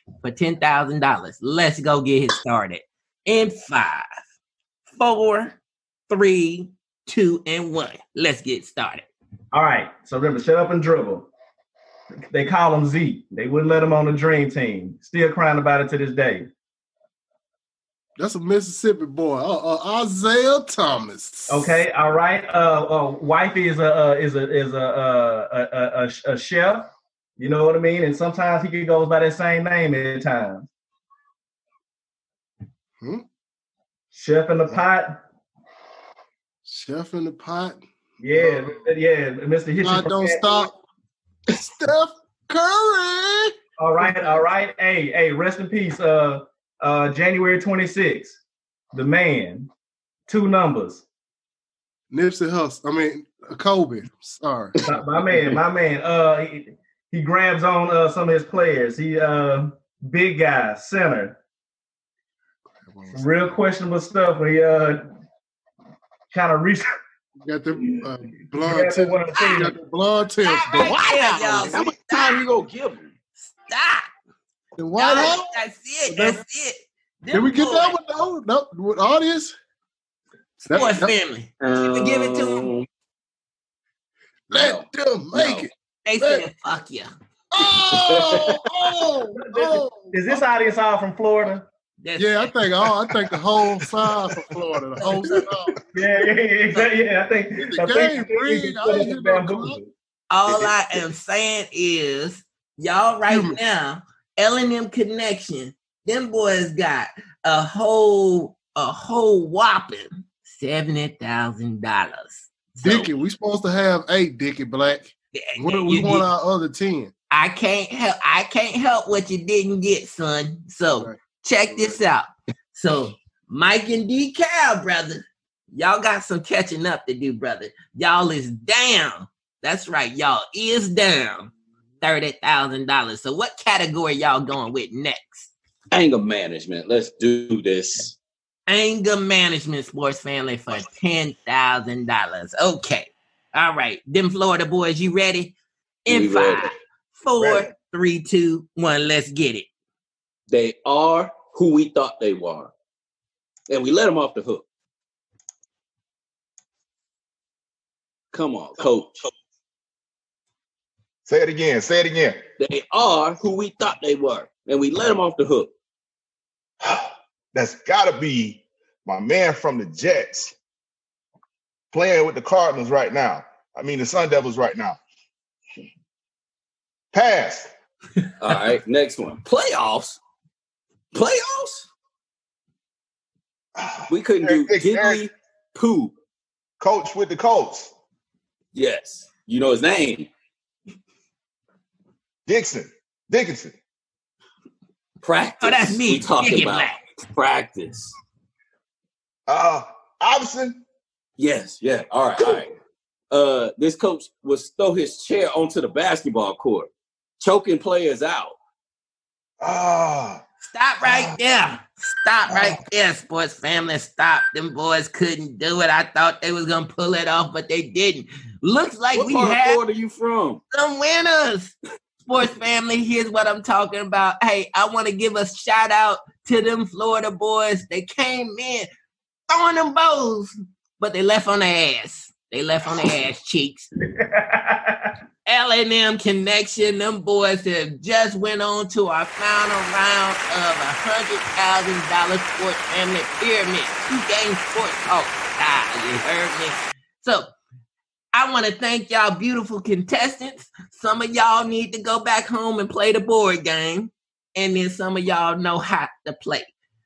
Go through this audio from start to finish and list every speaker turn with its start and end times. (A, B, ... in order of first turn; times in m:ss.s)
0:00.2-0:04.0 A
0:04.9-0:05.6 A
0:06.1-0:09.1 A
0:09.5-0:11.3 B
0:12.3-0:16.5 B
0:18.2-0:21.8 C
0:21.5-0:30.7 B
0:34.1-0:35.2 B
0:36.6-0:38.9 C
0:38.2-0:40.7 B
0:39.8-0:40.7 C
0:41.5-0:44.4 C
0:43.8-0:48.4 B
0:48.9-0:49.7 B
0:50.3-0:51.0 B
0:52.1-0:54.8 C
0:54.8-1:01.4 B
1:02.8-1:03.4 C
1:03.1-1:05.0 B
1:06.3-1:06.9 B
1:07.4-1:11.8 C
1:08.6-1:09.8 B
1:09.3-1:09.7 A
1:10.4-1:12.4 A
1:11.7-1:13.1 D
1:13.4-1:14.1 A
1:14.8-1:16.4 C
1:15.0-1:18.0 A
1:17.3-1:19.5 C
1:20.6-1:21.1 C
1:20.7-1:22.7 A
1:21.6-1:22.9 D
1:24.5-1:26.4 C
1:24.5-1:25.7 D
1:26.0-1:27.1 A
1:27.5-1:30.4 C
1:28.0-1:28.6 D
1:29.4-1:31.6 B
1:32.0-1:32.5 A
1:32.2-1:35.7 C
1:35.0-1:35.4 A
1:35.9-1:39.9 B
1:37.6-1:39.8 C
1:40.3-1:53.1 A
1:43.3-1:43.6 C
1:52.8-1:57.1 C
1:55.3-1:56.3 A
1:57.3-2:15.5 A
2:01.0-2:02.0 C
2:15.9-2:18.2 D
2:18.7-2:25.5 A
2:26.0-2:29.7 A
2:26.1-2:26.7 D
2:30.5-2:32.7 D
2:33.7-2:34.6 D
2:38.3-2:39.3 D
2:41.3-2:42.4 E
2:42.6-2:45.7 D
2:46.8-2:50.5 E
2:51.9-2:55.0 E
2:57.1-2:57.7 E
2:58.4-3:00.2 D
3:01.1-3:01.9 D
3:03.8-3:05.3 E
3:04.1-3:06.1 D
3:06.8-3:07.9 E
3:08.7-3:10.3 D
3:12.5-3:13.7 E
3:15.2-3:18.1 D
3:15.6-3:17.0 A
3:19.5-3:20.8 E
3:21.4-3:22.7 D
3:23.3-3:28.6 D
3:29.6-3:30.4 E
3:30.7-3:39.8 A
3:31.0-3:31.4 E
3:32.5-3:32.8 E
3:39.1-3:40.6 D
3:40.7-3:41.7 A
3:42.2-3:48.9 A
3:49.5-3:53.9 A
3:54.1-3:55.1 B
3:55.4-4:07.5 A
4:08.3-4:16.7 A